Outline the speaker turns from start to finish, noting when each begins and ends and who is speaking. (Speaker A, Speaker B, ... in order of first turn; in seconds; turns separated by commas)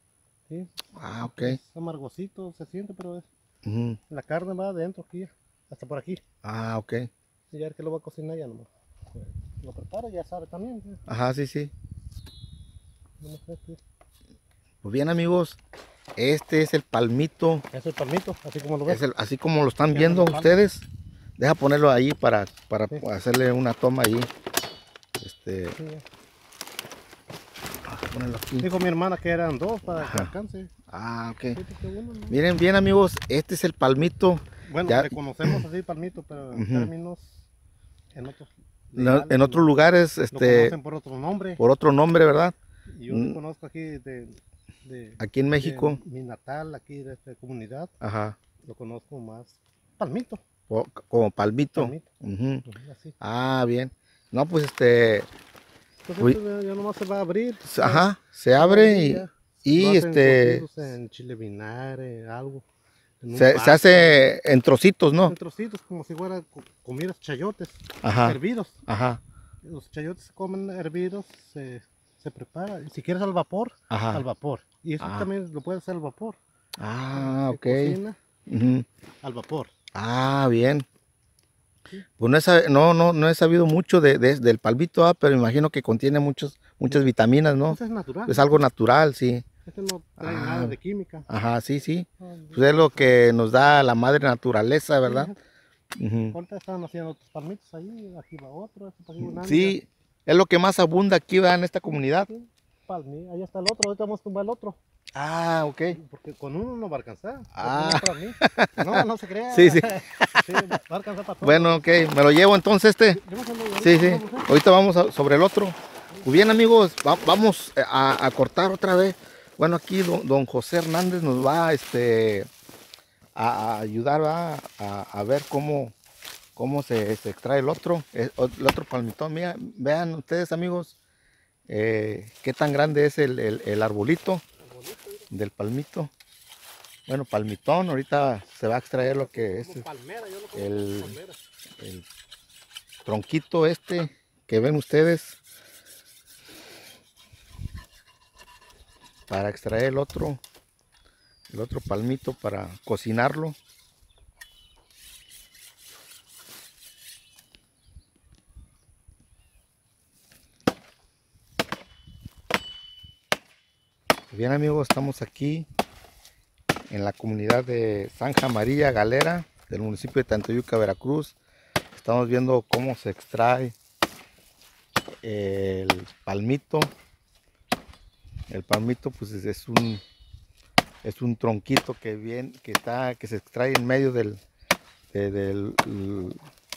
Speaker A: 0.9-1.6, Speaker B: 1.4-3.2, Speaker A: 3.6-4.0, Speaker B: 4.1-6.2, Speaker A: 6.4-7.1, Speaker B: 7.5-11.0, Speaker A: 11.1-11.7, Speaker B: 13.2-13.8, Speaker A: 14.8-15.6, Speaker A: 16.2-17.6, Speaker B: 17.7-19.0, Speaker A: 18.9-20.9, Speaker B: 19.9-20.6, Speaker A: 21.4-24.3, Speaker A: 25.2-25.8, Speaker B: 25.8-26.0, Speaker A: 27.9-28.7, Speaker B: 28.6-30.7, Speaker A: 30.0-30.3, Speaker A: 30.9-31.6, Speaker B: 31.5-32.4, Speaker A: 32.3-35.6, Speaker B: 34.6-37.4, Speaker A: 36.5-36.9, Speaker B: 38.1-39.7, Speaker A: 38.9-40.7, Speaker B: 40.3-41.6, Speaker A: 41.6-42.5, Speaker B: 42.9-47.9, Speaker A: 43.1-43.4, Speaker A: 45.2-46.0, Speaker A: 48.0-48.4, Speaker B: 48.6-50.4, Speaker A: 50.7-52.6, Speaker B: 51.8-52.0, Speaker B: 52.6-53.1, Speaker A: 53.2-55.3, Speaker B: 56.0-62.6, Speaker A: 57.6-60.6, Speaker B: 63.2-64.3, Speaker A: 63.3-65.3, Speaker B: 65.2-68.8, Speaker A: 68.0-69.2, Speaker B: 69.6-76.4, Speaker A: 73.9-74.2, Speaker A: 75.0-75.3, Speaker A: 76.8-78.8, Speaker B: 77.1-78.2, Speaker B: 79.2-79.7, Speaker A: 79.9-80.8, Speaker A: 82.2-89.5, Speaker B: 87.7-88.6, Speaker B: 89.7-91.2, Speaker A: 90.2-90.7, Speaker A: 91.3-95.3, Speaker B: 92.2-93.2, Speaker B: 95.0-95.4, Speaker A: 96.0-96.3, Speaker B: 96.3-99.8, Speaker A: 99.2-102.3, Speaker B: 101.9-104.8, Speaker A: 105.1-106.0, Speaker B: 105.9-111.8, Speaker A: 107.5-110.6, Speaker A: 111.4-113.2, Speaker B: 113.1-114.5, Speaker A: 113.8-122.5, Speaker A: 123.3-125.9, Speaker A: 126.5-131.0, Speaker A: 131.7-134.4, Speaker B: 134.6-135.3, Speaker A: 135.3-136.1, Speaker A: 137.1-139.8, Speaker B: 139.0-141.4, Speaker A: 140.5-141.2, Speaker A: 141.8-142.0, Speaker A: 143.0-145.4, Speaker A: 149.3-150.4, Speaker A: 151.5-153.6, Speaker A: 164.3-165.7, Speaker A: 166.9-171.4, Speaker A: 171.9-173.8, Speaker A: 175.2-176.9, Speaker A: 178.5-180.0, Speaker A: 181.0-184.4, Speaker A: 185.1-186.4